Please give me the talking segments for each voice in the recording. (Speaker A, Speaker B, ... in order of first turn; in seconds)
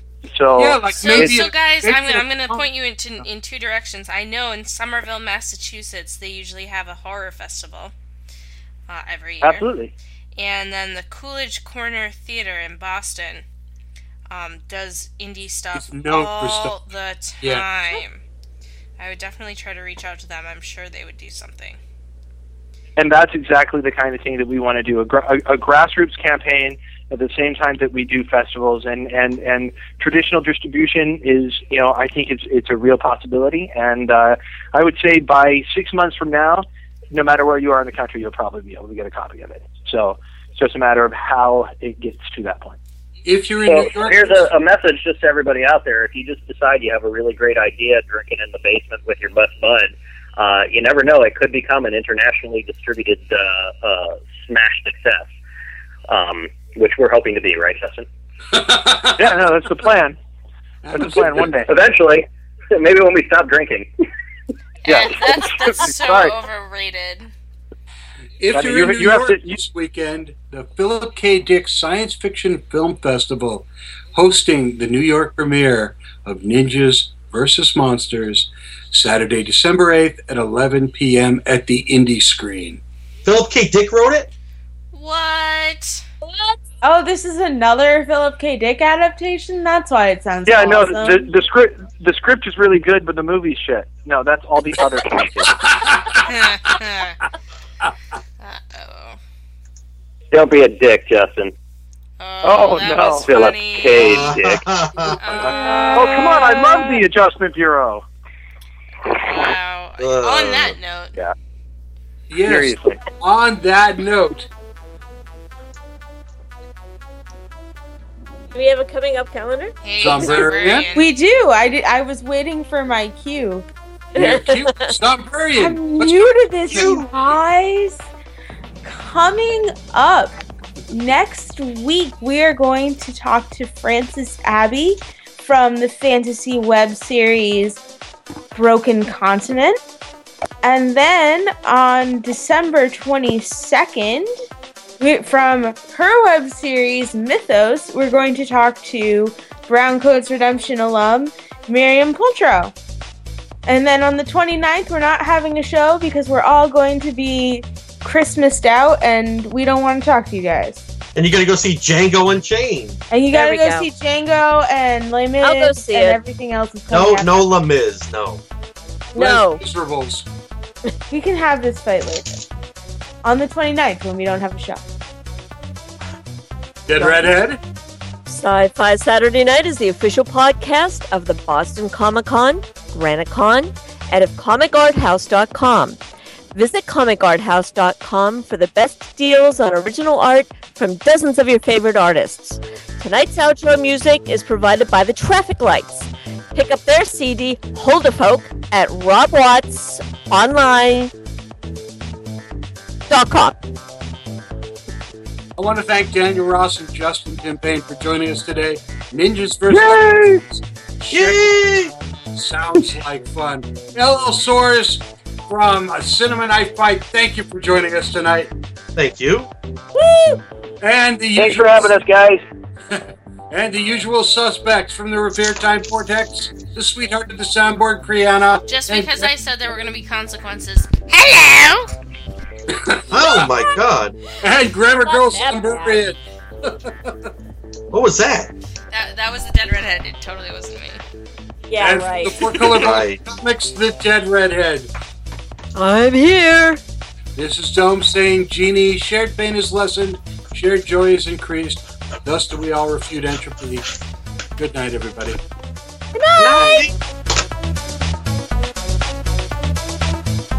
Speaker A: 0.2-1.4, 9.4-9.9, 23.0-42.8, 59.0-60.2, 60.9-61.7, 64.9-66.3, 68.5-69.6, 90.5-95.7, 102.4-103.4, 105.9-108.0, 112.4-113.0
Speaker B: 0.6-2.6, 15.7-16.8, 43.2-44.5, 58.5-59.3, 60.8-61.4, 68.4-82.8, 95.5-96.3, 112.3-114.5, 120.0-120.9, 124.1-127.1, 169.1-170.3, 176.9-177.6, 205.6-211.6, 212.3-218.5, 220.8-222.0, 222.9-229.3, 232.7-233.5, 234.4-237.3, 241.8-244.9, 247.3-253.8, 254.6-255.4, 256.4-256.9
Speaker C: 1.0-7.9, 8.9-9.7, 10.3-13.4, 14.3-18.2, 19.0-21.8, 64.8-67.3, 84.9-86.0, 96.2-97.2, 98.4-99.2, 102.2-106.4, 109.1-111.2, 119.8-121.1, 228.7-231.9, 238.9-241.0
Speaker D: 43.6-55.3, 56.1-58.1, 61.7-63.9, 100.3-101.5, 103.2-104.7, 221.3-222.4
Speaker E: 83.2-84.3, 103.9-105.5, 110.0-110.7, 161.1-163.0, 166.9-168.4, 209.7-210.1, 211.1-211.9, 218.9-219.5, 233.1-234.2, 237.9-238.5, 242.8-243.2
Speaker F: 86.2-86.6, 118.5-120.4, 124.1-124.8, 163.3-163.9, 165.4-166.2, 169.1-169.6, 177.0-177.3, 178.2-186.0, 186.5-201.1, 203.1-203.6, 219.9-220.4, 235.0-236.0, 241.7-243.0, 245.7-246.8, 256.1-256.9
Speaker G: 86.8-91.2, 120.9-123.7, 125.5-128.1, 128.8-130.3, 130.9-137.8, 138.5-139.8, 140.6-144.3, 145.0-152.7, 153.7-160.8, 163.1-167.5, 171.1-172.4, 173.2-174.8